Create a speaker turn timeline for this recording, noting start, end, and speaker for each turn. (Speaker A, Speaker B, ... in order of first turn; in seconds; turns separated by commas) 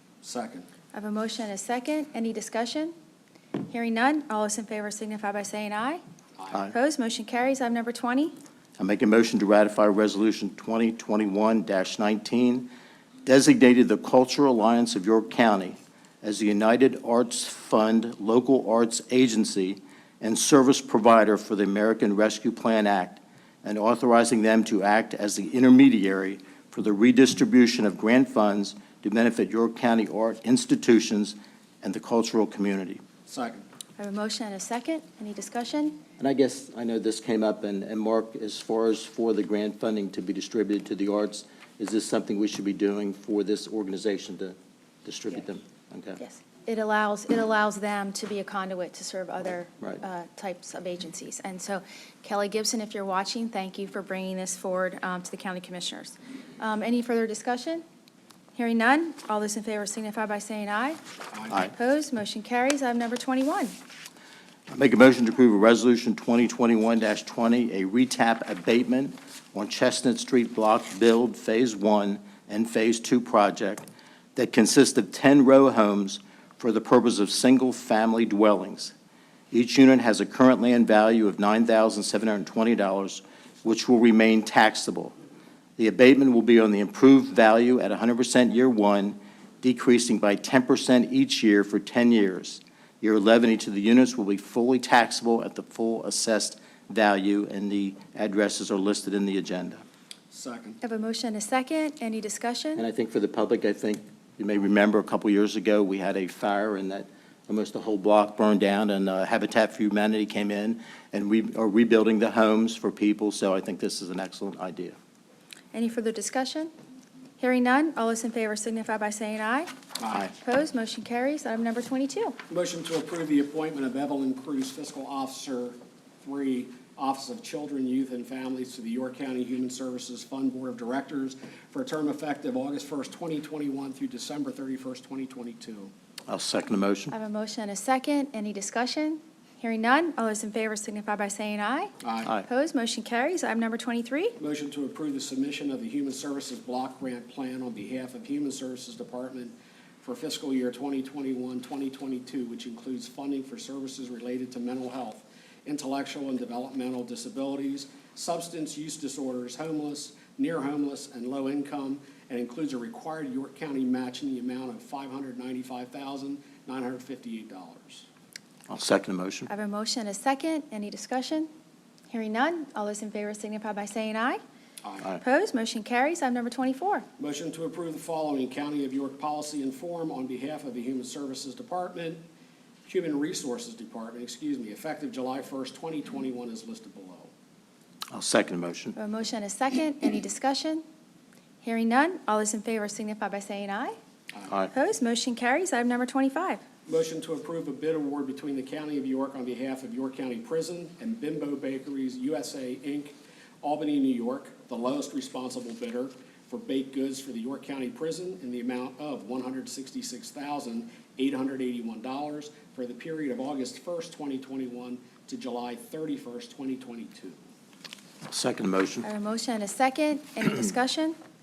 Speaker A: 0.2-0.7, Speaker B: 0.9-2.9, Speaker B: 3.6-6.0, Speaker B: 6.7-8.3, Speaker C: 8.8-12.7, Speaker C: 13.2-33.0, Speaker A: 33.3-33.6, Speaker B: 34.0-36.0, Speaker C: 36.2-46.2, Speaker B: 46.2-57.8, Speaker B: 58.5-63.7, Speaker C: 64.7-78.9, Speaker C: 79.5-85.1, Speaker C: 85.8-99.8, Speaker A: 100.3-100.8, Speaker B: 100.8-102.8, Speaker C: 102.8-115.0, Speaker B: 115.7-116.7, Speaker B: 117.4-119.7, Speaker B: 120.2-122.4, Speaker A: 122.5-135.9, Speaker C: 136.3-137.1, Speaker B: 137.1-144.4, Speaker A: 142.0-142.3, Speaker A: 144.4-168.1, Speaker C: 168.7-169.5, Speaker B: 169.5-171.5, Speaker B: 172.1-174.4, Speaker B: 175.2-177.1, Speaker A: 177.2-182.2, Speaker A: 182.8-187.3, Speaker C: 188.1-188.9, Speaker B: 188.9-190.8, Speaker B: 191.6-194.0, Speaker B: 194.7-196.6, Speaker A: 196.9-217.4, Speaker C: 218.3-219.1, Speaker B: 219.0-221.2